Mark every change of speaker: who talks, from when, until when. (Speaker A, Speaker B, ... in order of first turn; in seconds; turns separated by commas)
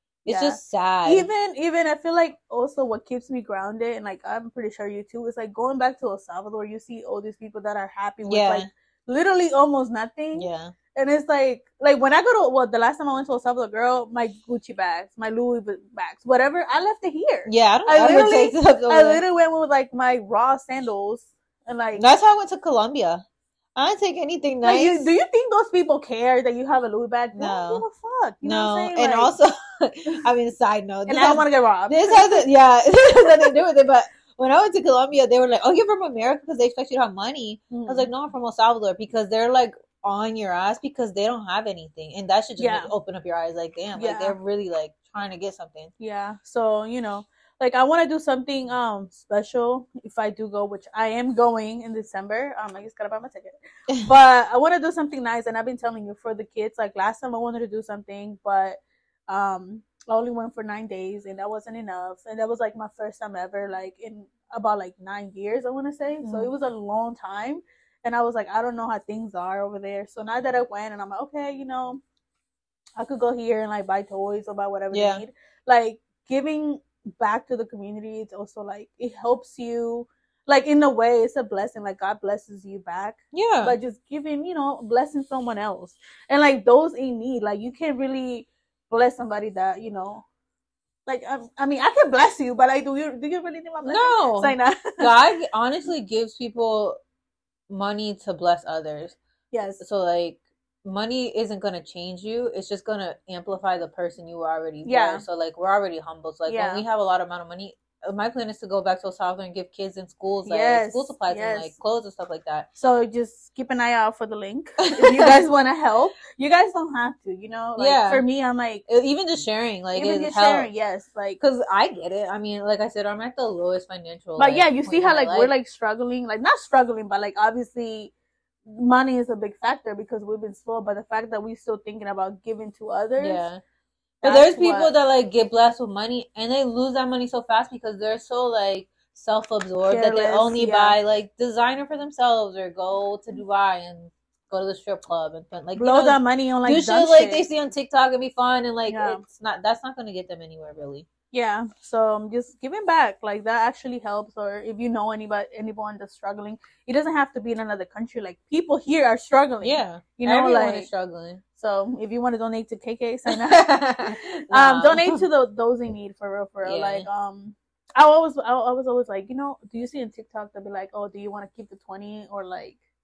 Speaker A: 0.2-22.0, Speaker B: 0.3-1.3, Speaker B: 8.2-8.7, Speaker B: 10.3-10.7, Speaker B: 17.5-19.2, Speaker B: 21.9-23.2, Speaker B: 23.8-25.1, Speaker A: 24.6-29.3, Speaker B: 27.3-27.8, Speaker B: 28.4-45.9, Speaker A: 31.1-32.5, Speaker A: 33.0-33.5, Speaker A: 37.7-38.1, Speaker A: 42.6-42.9, Speaker A: 43.9-44.4, Speaker A: 46.0-72.0, Speaker B: 66.2-66.5, Speaker A: 73.0-90.2, Speaker B: 74.9-75.2, Speaker B: 83.3-83.8, Speaker A: 91.0-95.1, Speaker B: 93.8-97.0, Speaker B: 97.7-99.2, Speaker A: 99.5-99.8, Speaker B: 99.8-112.7, Speaker A: 104.8-105.2, Speaker A: 106.5-106.8, Speaker A: 110.4-111.7, Speaker A: 112.7-118.8, Speaker B: 115.0-115.4, Speaker B: 117.8-118.2, Speaker B: 118.9-120.7, Speaker A: 119.9-121.4, Speaker B: 121.4-125.5, Speaker A: 124.4-128.1, Speaker A: 128.6-133.4, Speaker B: 133.2-133.6, Speaker A: 134.2-134.9, Speaker B: 134.2-151.1, Speaker A: 139.8-141.0, Speaker A: 145.7-147.4, Speaker A: 148.9-149.2, Speaker A: 151.3-160.9, Speaker B: 159.6-161.4, Speaker A: 161.6-172.8, Speaker B: 163.3-165.2, Speaker B: 166.6-167.1